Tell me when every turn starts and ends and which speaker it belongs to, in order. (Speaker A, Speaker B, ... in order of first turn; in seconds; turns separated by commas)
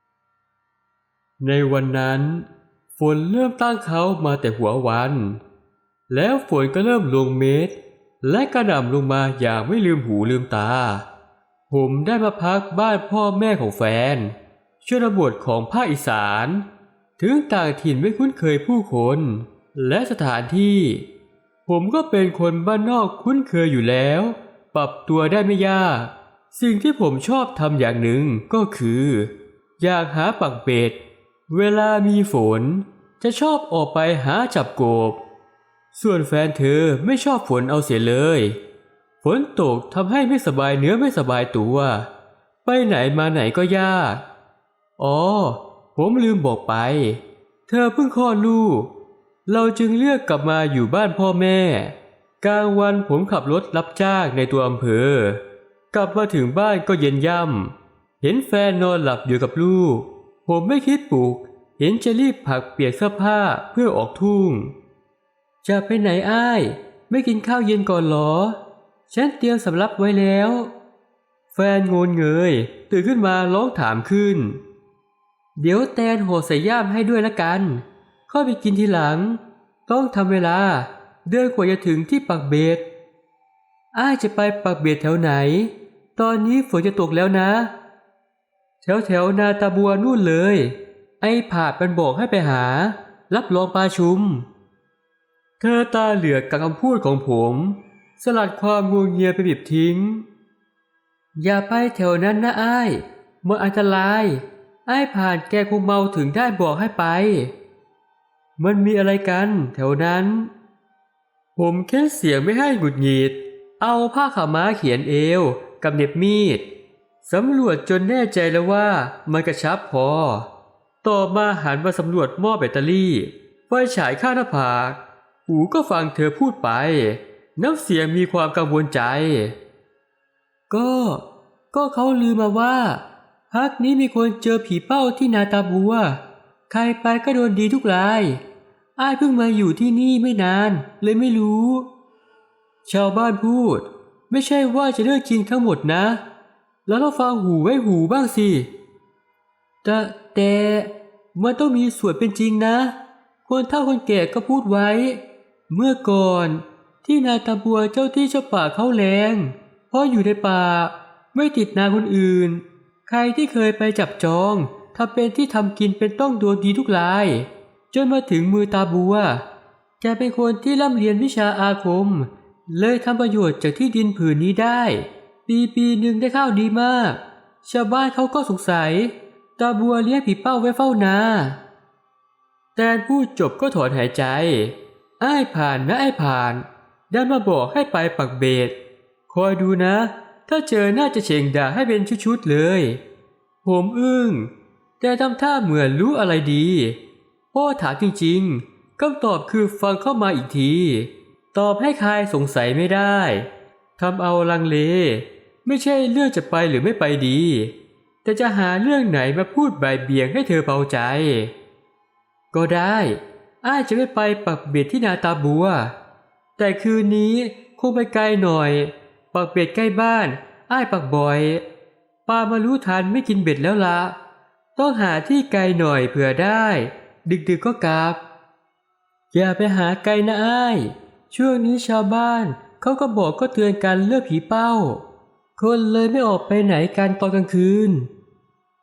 Speaker A: 1.4-5.4, Speaker A: 6.1-11.0, Speaker A: 11.7-16.6, Speaker A: 17.2-21.1, Speaker A: 21.6-31.0, Speaker A: 31.5-35.2, Speaker A: 35.9-38.6, Speaker A: 39.2-42.1, Speaker A: 42.6-44.2, Speaker A: 45.0-48.9, Speaker A: 49.5-64.7, Speaker A: 65.6-68.6, Speaker A: 69.1-70.7, Speaker A: 71.5-74.6, Speaker A: 75.5-82.8, Speaker A: 83.9-87.7, Speaker A: 88.8-94.5, Speaker A: 95.6-100.2, Speaker A: 101.4-107.5, Speaker A: 108.6-110.5, Speaker A: 111.5-116.7, Speaker A: 117.2-120.5, Speaker A: 121.0-129.6, Speaker A: 130.7-138.4, Speaker A: 139.0-141.9, Speaker A: 142.8-146.2, Speaker A: 146.8-148.7, Speaker A: 149.8-152.9, Speaker A: 153.4-169.4, Speaker A: 170.0-181.6, Speaker A: 182.8-188.7, Speaker A: 189.3-193.0, Speaker A: 193.6-197.0, Speaker A: 197.5-211.5, Speaker A: 212.5-215.9, Speaker A: 216.6-221.6, Speaker A: 222.2-224.1, Speaker A: 224.8-228.2, Speaker A: 229.3-235.0, Speaker A: 235.6-238.1